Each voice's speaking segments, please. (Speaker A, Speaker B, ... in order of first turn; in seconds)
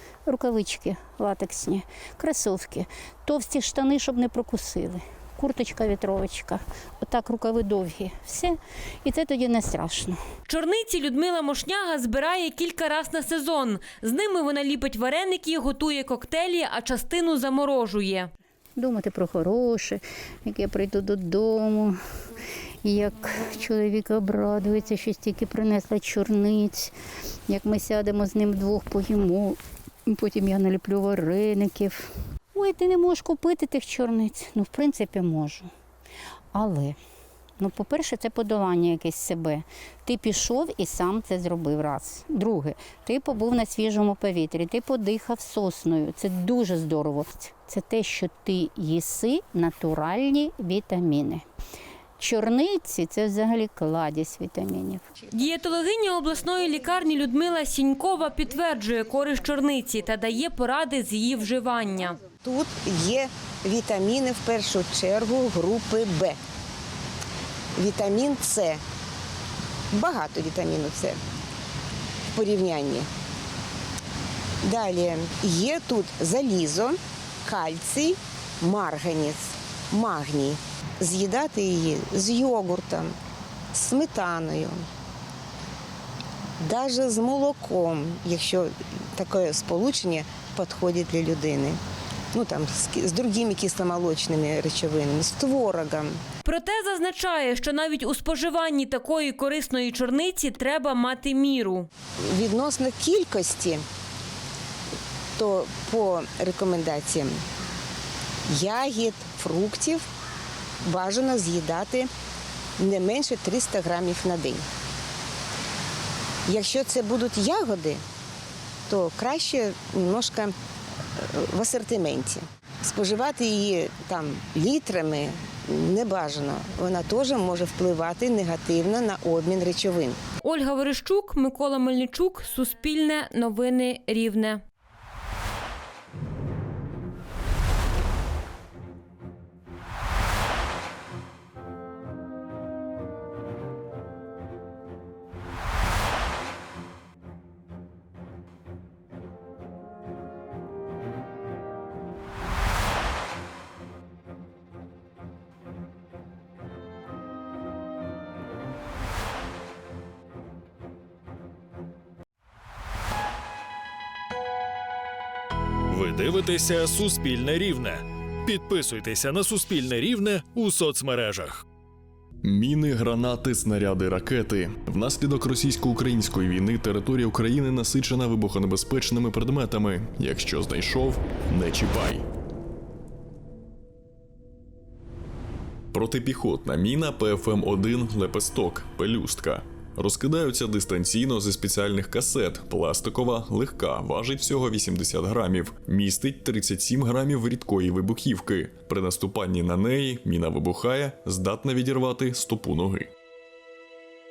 Speaker A: 0.2-10.2, 18.8-22.0, 22.8-26.9, 27.5-35.7, 36.5-37.0, 37.6-51.4, 52.2-55.0
Speaker B: 10.5-18.3, 55.3-62.2, 96.4-101.9, 130.4-134.6
Speaker C: 62.3-66.4, 67.8-68.8, 69.9-71.2, 72.3-73.1, 74.6-83.1, 83.7-84.8, 86.6-91.8, 92.3-96.2, 102.3-103.8, 105.4-107.3, 108.5-110.0, 110.8-112.1, 112.8-114.6, 116.5-118.0, 118.9-120.5, 121.3-130.2
Speaker D: 165.9-171.6
Speaker E: 172.4-182.2, 185.9-203.1